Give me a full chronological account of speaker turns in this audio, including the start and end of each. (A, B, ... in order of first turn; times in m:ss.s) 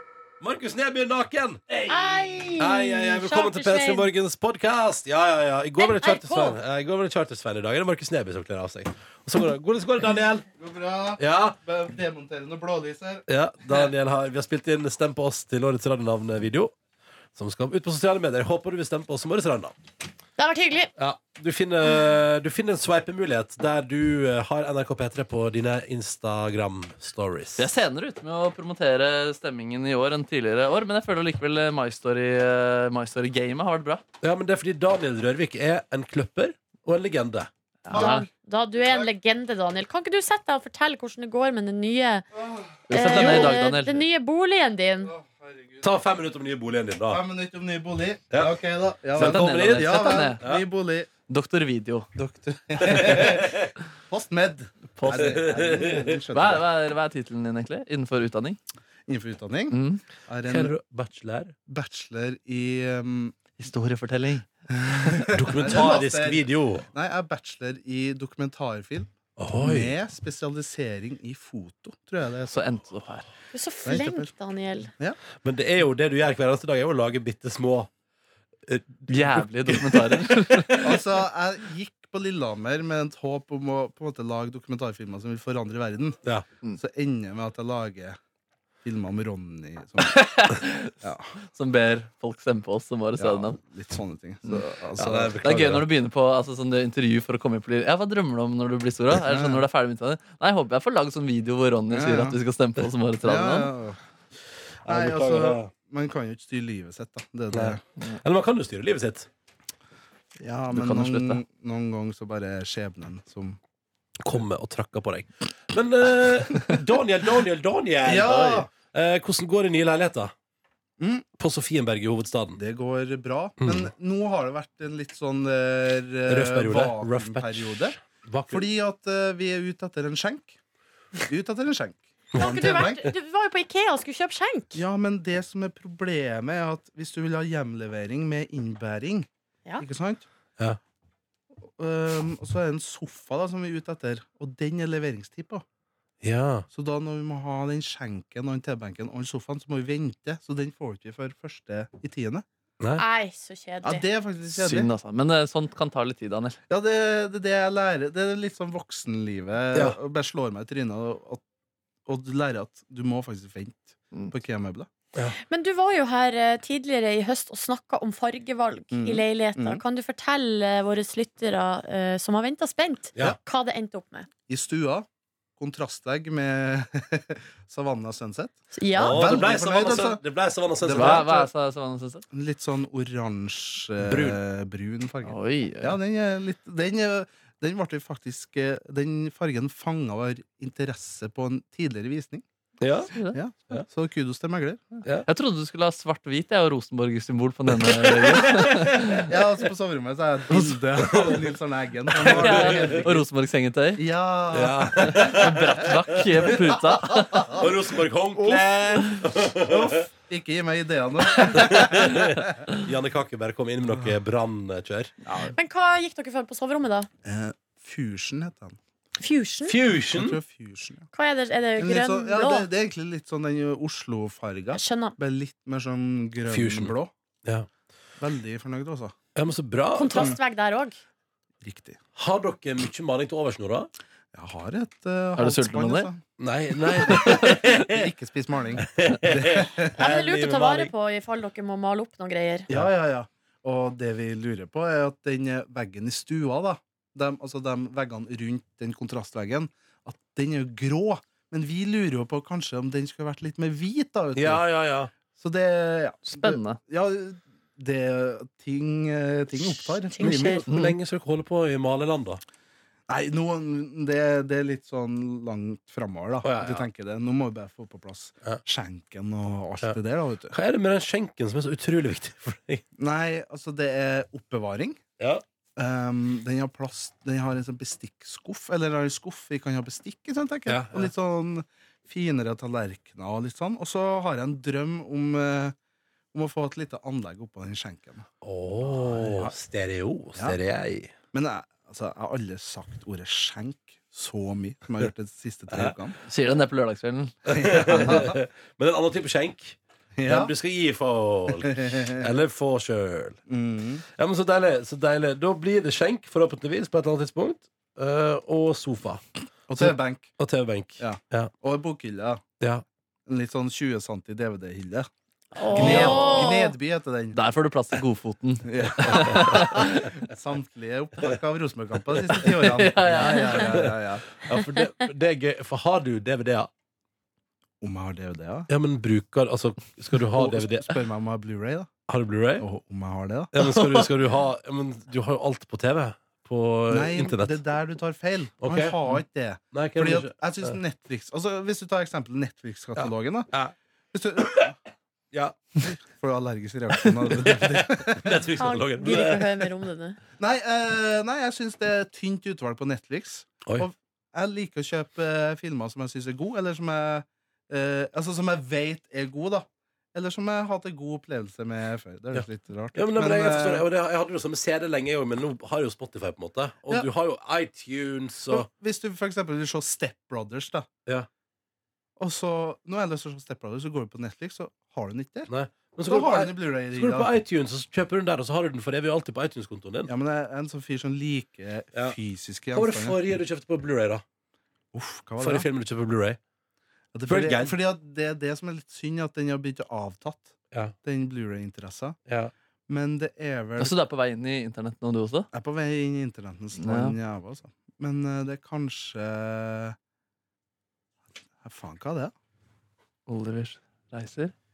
0:00.4-0:10.4 A
0:01.9-0:04.1 B
0:05.8-0:06.6 B
0:10.5-0:13.2 C
0:11.2-0:11.6 A
0:13.3-0:16.7 A
0:17.3-0:19.7 A
0:20.4-0:20.9 B
0:21.0-0:27.6 A
0:27.6-0:34.0 D
0:34.2-0:37.5 A
0:37.8-0:38.2 D
0:37.9-0:42.2 B
0:37.9-0:38.2 C
0:42.3-0:43.5 C
0:42.9-0:44.0 D
0:42.9-0:45.1 B
0:45.0-0:45.9 C
0:45.8-0:47.2 A
0:47.1-0:51.1 C
0:49.1-0:50.6 A
0:49.1-0:50.4 D
0:51.3-0:52.1 D
0:52.2-0:56.6 C
0:52.8-0:53.7 A
0:55.0-0:55.7 D
0:55.1-0:56.2 A
0:56.3-0:58.6 D
0:59.1-1:00.7 C
0:59.7-1:00.0 D
1:00.4-1:01.5 A
1:01.6-1:03.4 C
1:03.6-1:04.4 D
1:04.7-1:12.7 C
1:05.3-1:06.9 A
1:09.4-1:09.9 A
1:12.5-1:13.3 D
1:13.5-1:14.9 B
1:13.8-1:14.3 C
1:15.4-1:17.9 A
1:18.6-1:20.9 A
1:19.1-1:21.0 D
1:20.8-1:26.2 C
1:26.8-1:28.2 C
1:28.8-1:31.3 C
1:30.0-1:33.6 D
1:33.2-1:35.8 C
1:35.0-1:35.8 A
1:35.4-1:43.7 D
1:39.2-1:39.6 C
1:41.9-1:42.4 C
1:43.2-1:44.0 C
1:44.8-1:45.7 A
1:44.8-1:47.8 C
1:47.5-1:49.3 A
1:50.4-1:53.6 C
1:50.7-1:51.4 D
1:54.2-2:00.3 A
1:58.0-1:58.7 C
2:01.0-2:01.2 C
2:01.4-2:02.6 A
2:02.6-2:08.0 C
2:03.6-2:03.9 A
2:06.3-2:08.6 A
2:08.5-2:10.6 C
2:11.3-2:13.1 C
2:12.4-2:12.6 A
2:12.4-2:14.8 B
2:14.7-2:19.3 C
2:19.8-2:20.2 C
2:21.6-2:25.6 C
2:26.2-2:26.6 A
2:26.7-2:32.4 C
2:33.0-2:34.0 B
2:33.8-2:34.9 C
2:34.5-2:36.6 D
2:36.7-2:41.4 C
2:42.0-2:44.9 C
2:45.5-2:54.3 B
2:48.9-2:49.8 C
2:54.5-3:00.2 C
2:58.7-2:59.4 B
2:59.0-3:01.3 A
3:00.8-3:01.5 C
3:00.9-3:02.2 D
3:02.3-3:12.4 C
3:04.0-3:04.4 A
3:05.2-3:06.0 D
3:12.8-3:13.1 A
3:13.1-3:13.4 D
3:13.3-3:15.0 C
3:15.2-3:19.3 D
3:18.6-3:19.2 A
3:19.2-3:23.3 C
3:20.5-3:20.8 D
3:21.0-3:21.4 A
3:22.2-3:23.0 A
3:22.2-3:24.0 D
3:24.0-3:25.5 C
3:24.5-3:25.9 A
3:25.0-3:27.5 D
3:27.3-3:27.7 C
3:27.4-3:30.0 A
3:28.3-3:29.1 C
3:29.7-3:32.4 C
3:31.4-3:35.1 A
3:33.9-3:34.2 C
3:35.2-3:35.5 C
3:35.4-3:37.1 B
3:37.2-3:38.8 C
3:39.2-3:39.8 B
3:39.6-3:40.4 A
3:40.1-3:41.1 C
3:41.1-3:42.7 B
3:41.8-3:47.1 C
3:44.7-3:45.2 B
3:46.5-3:46.9 A
3:48.2-3:49.1 C
3:49.3-3:50.3 A
3:50.0-3:51.0 B
3:51.6-3:52.0 C
3:52.2-3:53.9 A
3:54.3-3:56.2 C
3:55.4-3:56.1 D
3:56.4-3:58.1 A
3:56.7-4:00.0 C
3:57.1-3:57.6 D
3:58.8-4:00.9 A
4:00.0-4:02.7 B
4:02.7-4:14.6 C
4:14.4-4:15.1 A
4:15.3-4:20.6 C
4:16.3-4:16.8 D
4:20.0-4:20.6 B
4:20.2-4:22.4 A
4:20.7-4:21.0 D
4:23.1-4:30.5 C
4:26.4-4:26.8 A
4:30.5-4:32.8 A
4:33.0-4:35.0 C
4:35.8-4:45.8 C
4:40.7-4:41.1 A
4:46.3-4:48.3 C
4:48.4-4:51.1 A
4:48.8-4:49.5 C
4:51.3-4:56.2 C
4:56.2-4:58.2 D
4:57.5-5:03.4 A
4:57.5-4:58.4 C
5:00.2-5:00.5 C
5:01.5-5:02.3 C
5:03.5-5:04.0 C
5:04.2-5:09.2 A
5:09.7-5:10.3 C
5:09.8-5:11.5 A
5:11.0-5:12.4 C
5:13.3-5:15.1 C
5:15.5-5:16.7 B
5:15.6-5:17.4 C
5:15.7-5:16.4 A
5:15.8-5:16.2 D
5:17.3-5:20.1 D
5:18.6-5:24.2 C
5:19.1-5:19.8 A
5:22.4-5:23.9 D
5:23.5-5:26.7 A
5:27.8-5:28.7 C
5:28.7-5:31.0 A
5:30.3-5:31.9 C
5:32.1-5:32.6 A
5:32.6-5:33.5 C
5:33.5-5:37.6 A
5:33.6-5:34.1 D
5:36.9-5:43.5 C
5:38.6-5:38.9 A
5:39.7-5:40.8 A
5:43.0-5:43.7 A
5:44.1-5:44.7 C
5:44.4-5:44.7 A
5:45.3-5:45.8 A
5:45.8-5:48.5 C
5:47.0-5:49.6 A
5:48.6-5:50.2 B
5:50.4-6:03.8 C
6:02.3-6:08.6 A
6:08.5-6:10.9 C
6:12.2-6:15.5 C
6:15.5-6:20.1 A
6:16.0-6:17.3 C
6:20.1-6:23.2 C
6:22.7-6:24.2 A
6:24.9-6:25.7 C
6:25.4-6:26.4 A
6:27.1-6:32.2 C
6:27.3-6:27.7 A
6:32.3-6:32.5 A
6:32.9-6:33.9 C
6:33.8-6:35.5 D
6:35.5-6:40.0 C
6:36.8-6:37.2 D
6:41.6-6:42.3 C
6:43.3-6:44.5 D